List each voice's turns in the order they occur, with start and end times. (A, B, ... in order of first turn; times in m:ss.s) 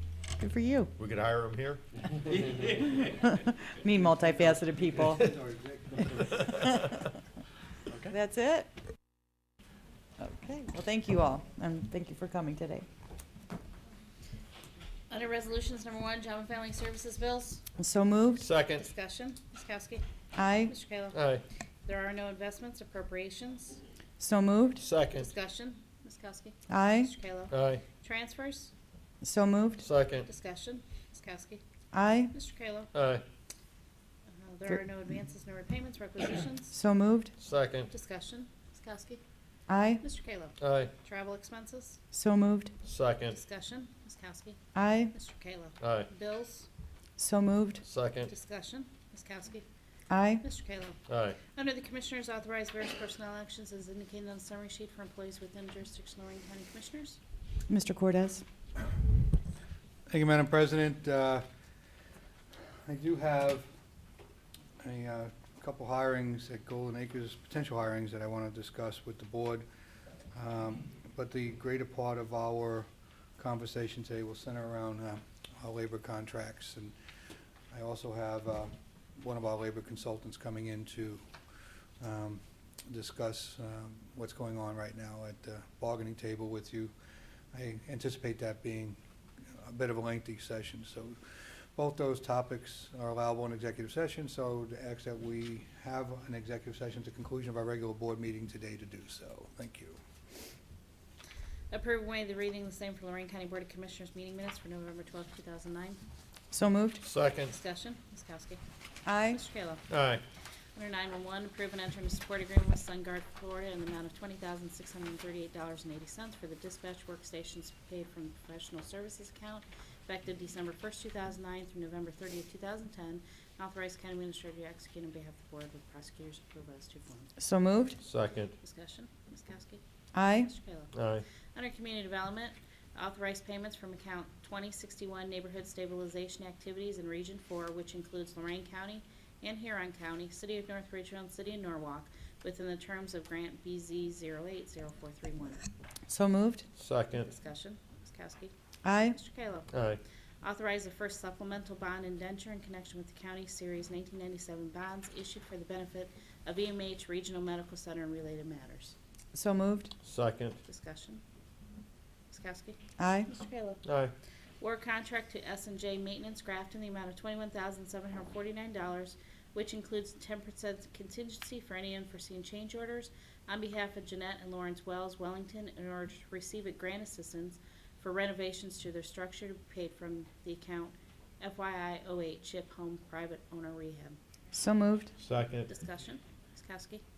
0:00.4-0:00.9 A
0:01.0-0:01.8 B
0:03.1-0:05.3 A
0:06.4-0:07.0 A
0:08.0-0:08.7 A
0:10.2-0:12.9 A
0:15.1-0:17.6 C
0:17.8-0:18.4 A
0:18.4-0:18.9 B
0:18.8-0:20.0 C
0:20.3-0:20.7 A
0:20.6-0:21.2 C
0:21.1-0:21.4 B
0:21.9-0:23.8 C
0:24.2-0:24.8 A
0:24.8-0:25.3 B
0:25.1-0:28.7 C
0:26.7-0:27.1 A
0:27.5-0:27.8 B
0:29.2-0:29.8 A
0:29.8-0:30.2 B
0:30.2-0:31.6 C
0:31.9-0:32.3 A
0:32.3-0:32.9 C
0:32.9-0:33.2 B
0:34.4-0:36.7 C
0:36.7-0:37.3 A
0:37.4-0:37.9 B
0:37.9-0:39.2 C
0:39.7-0:40.0 A
0:40.0-0:42.0 C
0:40.6-0:40.9 B
0:42.1-0:42.7 A
0:42.8-0:43.4 B
0:43.3-0:44.6 C
0:44.7-0:45.1 A
0:45.1-0:46.7 C
0:45.8-0:46.1 B
0:47.2-0:47.8 A
0:47.8-0:48.3 B
0:48.2-0:49.6 C
0:50.1-0:50.4 A
0:50.4-0:57.2 C
0:51.1-0:51.4 B
0:57.7-0:58.4 A
1:00.1-1:01.4 D
1:02.8-1:03.7 D
1:04.8-1:09.6 D
1:10.3-1:12.9 D
1:13.4-1:16.9 D
1:17.7-1:21.2 D
1:22.0-1:26.9 D
1:27.5-1:29.0 D
1:29.5-1:31.2 D
1:31.8-1:40.0 D
1:41.7-1:46.0 C
1:46.5-1:47.0 A
1:47.0-1:47.5 B
1:47.4-1:48.6 C
1:49.0-1:49.4 A
1:49.3-1:49.9 C
1:49.9-1:50.2 B
1:50.8-2:07.3 C
2:07.4-2:08.0 A
2:08.0-2:08.6 B
2:08.6-2:09.8 C
2:10.1-2:10.5 A
2:10.3-2:10.9 C
2:10.9-2:11.2 B
2:11.5-2:25.6 C
2:26.1-2:26.6 A
2:26.8-2:27.3 B
2:27.2-2:28.5 C
2:28.8-2:29.2 A
2:29.1-2:29.7 C
2:29.7-2:30.0 B
2:30.4-2:39.0 C
2:39.3-2:39.9 A
2:40.0-2:40.6 B
2:40.7-2:41.2 C
2:42.3-2:43.8 C
2:43.0-2:43.3 A
2:43.9-2:44.1 B
2:44.6-3:04.2 C
3:04.5-3:05.1 A
3:05.2-3:05.7 B
3:05.7-3:07.0 C